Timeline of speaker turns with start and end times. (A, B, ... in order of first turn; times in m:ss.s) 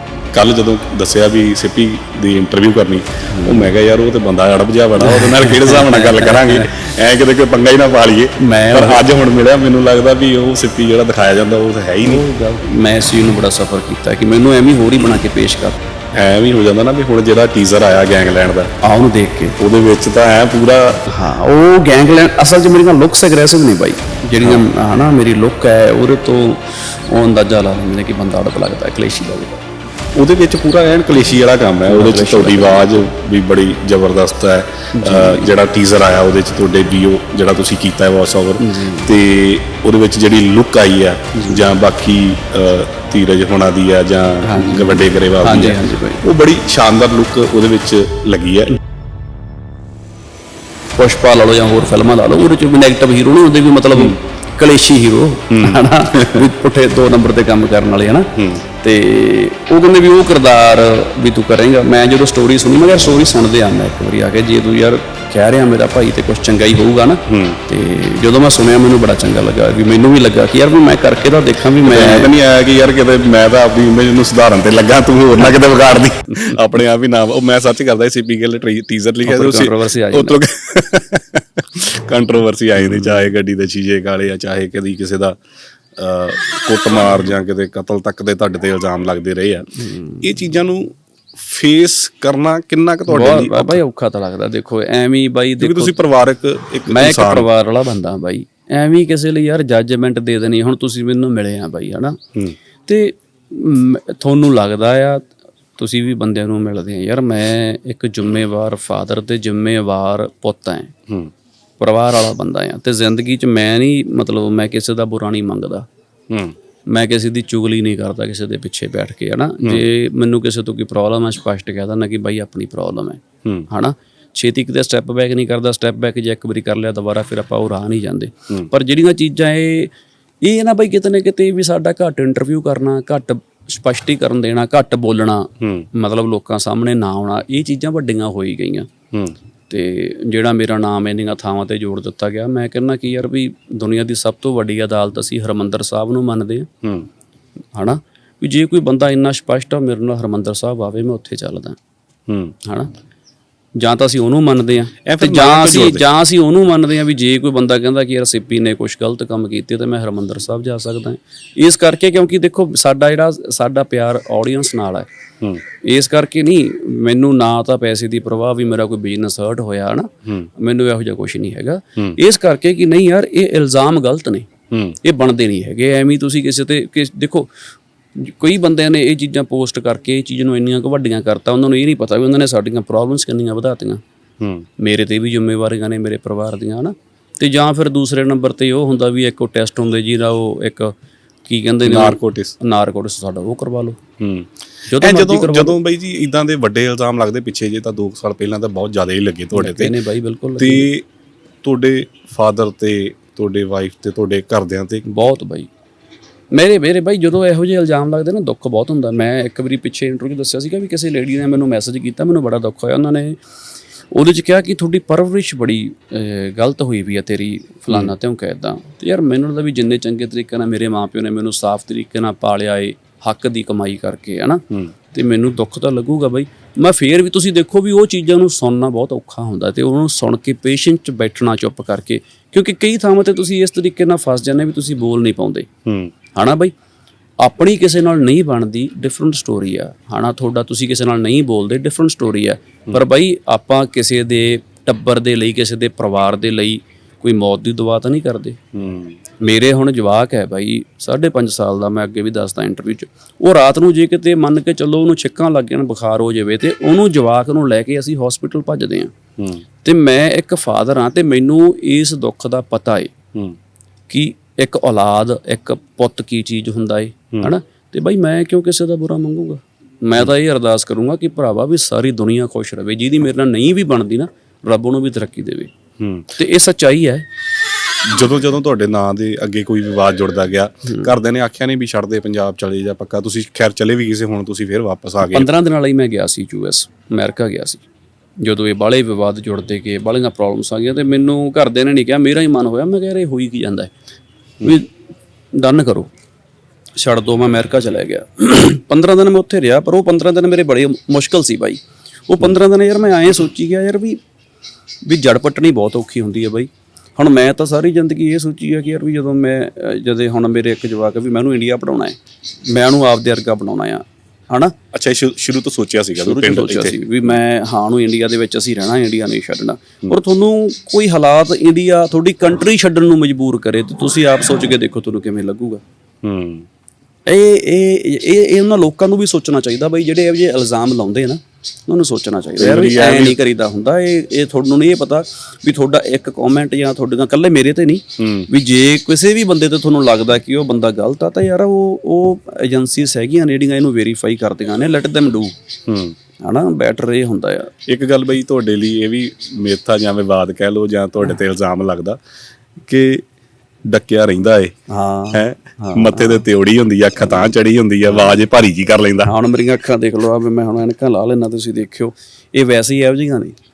0:00.3-0:12.3 A
0:03.4-0:03.7 B
0:05.0-0:06.7 B
0:08.4-0:09.0 B
0:12.0-0:15.8 B
0:16.2-0:18.7 A
0:18.8-0:19.6 B
0:19.6-0:21.0 A
0:21.1-0:29.6 B
0:30.2-0:48.8 A
0:31.9-0:33.1 B
0:34.9-0:35.5 B
0:38.6-0:39.1 B
0:41.4-0:41.6 B
0:44.4-0:46.2 B
0:51.0-0:58.3 B
0:53.9-0:54.2 A
0:55.5-0:56.5 A
0:58.4-0:58.6 A
0:58.8-1:12.3 B
1:07.3-1:07.6 A
1:11.8-1:25.4 A
1:19.3-1:20.4 B
1:22.8-1:23.2 B
1:26.0-1:33.8 A
1:29.8-1:30.2 B
1:33.1-1:36.0 B
1:35.6-1:37.5 A
1:36.9-1:42.2 B
1:42.9-1:50.9 B
1:51.8-1:55.9 B
1:56.9-2:18.9 B
2:15.6-2:15.9 A
2:19.7-2:26.7 B
2:27.7-2:31.8 B
2:32.3-2:32.6 A
2:32.6-2:32.9 B
2:33.8-2:45.1 B
2:35.1-2:36.1 A
2:45.8-2:54.5 B
2:54.7-2:55.0 A
2:55.0-2:57.5 B
2:58.2-3:04.0 B
3:04.4-3:04.7 A
3:04.8-3:10.9 B
3:11.4-3:14.0 B
3:11.8-3:12.6 A
3:14.2-3:20.0 A
3:14.9-3:15.8 B
3:19.5-3:20.9 B
3:20.6-3:21.1 A
3:21.6-3:25.0 A
3:25.0-3:25.7 B
3:26.5-3:33.4 B
3:34.1-3:55.7 B
3:55.9-3:56.1 A
3:56.4-3:56.7 B
3:57.4-4:08.6 B
4:08.7-4:09.2 A
4:09.4-4:19.1 B
4:19.4-4:19.6 A
4:19.8-4:23.1 B
4:24.1-4:35.7 B
4:36.0-4:36.4 A
4:36.4-4:37.3 B
4:38.1-4:45.5 A
4:45.2-4:47.8 B
4:48.4-4:53.9 B
4:54.6-4:54.9 B
4:55.5-4:56.1 B
4:57.0-5:04.2 B
5:05.0-5:14.8 B
5:14.9-5:17.0 A
5:16.2-5:25.8 B
5:26.2-5:26.7 A
5:27.3-5:45.5 B
5:32.6-5:33.4 A
5:38.2-5:38.5 A
5:45.9-5:46.2 A
5:46.4-5:47.7 B
5:47.9-5:52.2 A
5:52.8-5:53.2 A
5:53.9-5:54.7 A
5:54.9-5:56.4 B
5:55.3-5:59.3 A
5:59.2-6:03.6 B